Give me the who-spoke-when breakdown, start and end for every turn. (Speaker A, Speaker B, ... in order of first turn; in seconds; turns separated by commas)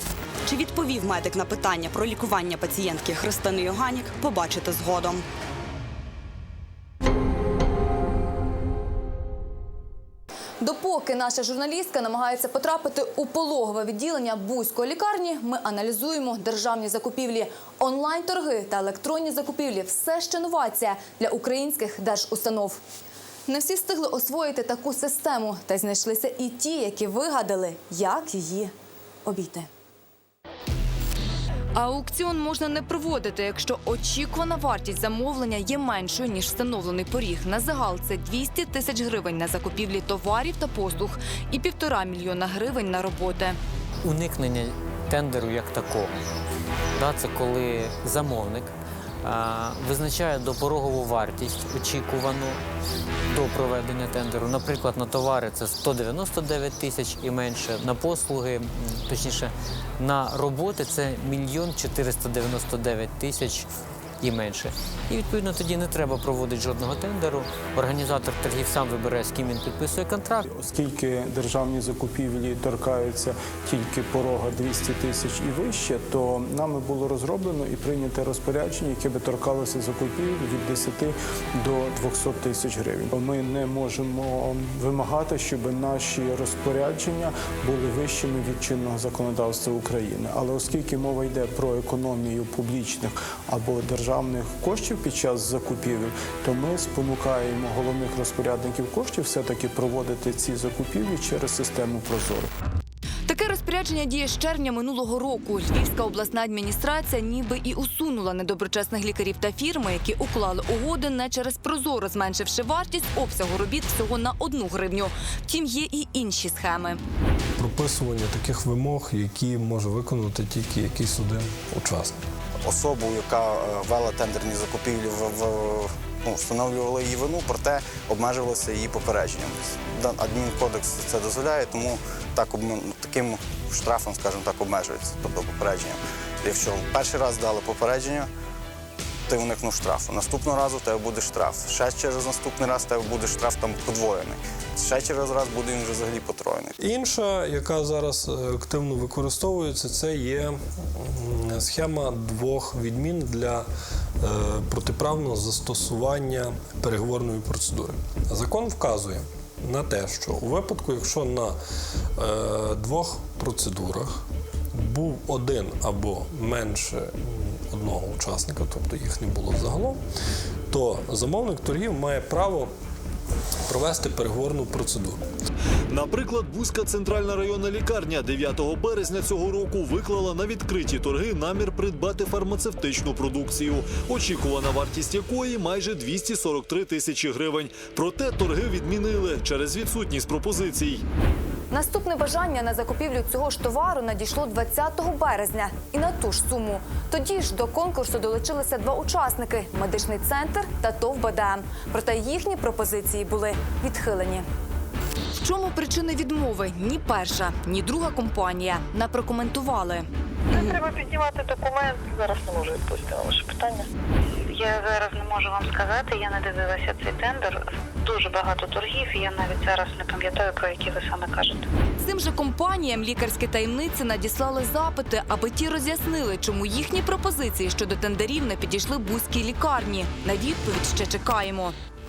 Speaker A: 0.5-5.2, Speaker B: 10.6-22.8, Speaker B: 23.5-28.7, Speaker B: 29.2-29.7, Speaker B: 31.7-43.6, Speaker C: 44.0-46.2, Speaker C: 46.9-52.6, Speaker C: 53.3-63.7, Speaker C: 64.2-70.5, Speaker D: 70.5-102.5, Speaker B: 103.3-117.0, Speaker E: 117.6-122.2, Speaker F: 122.7-138.3, Speaker F: 139.3-146.7, Speaker E: 146.8-153.7, Speaker E: 154.2-161.6, Speaker E: 162.2-170.0, Speaker E: 170.7-172.7, Speaker E: 173.7-175.2, Speaker G: 175.9-191.0, Speaker B: 191.7-204.4, Speaker B: 205.4-210.1, Speaker A: 210.5-210.8, Speaker H: 210.5-213.8, Speaker H: 214.5-221.7, Speaker B: 222.0-231.7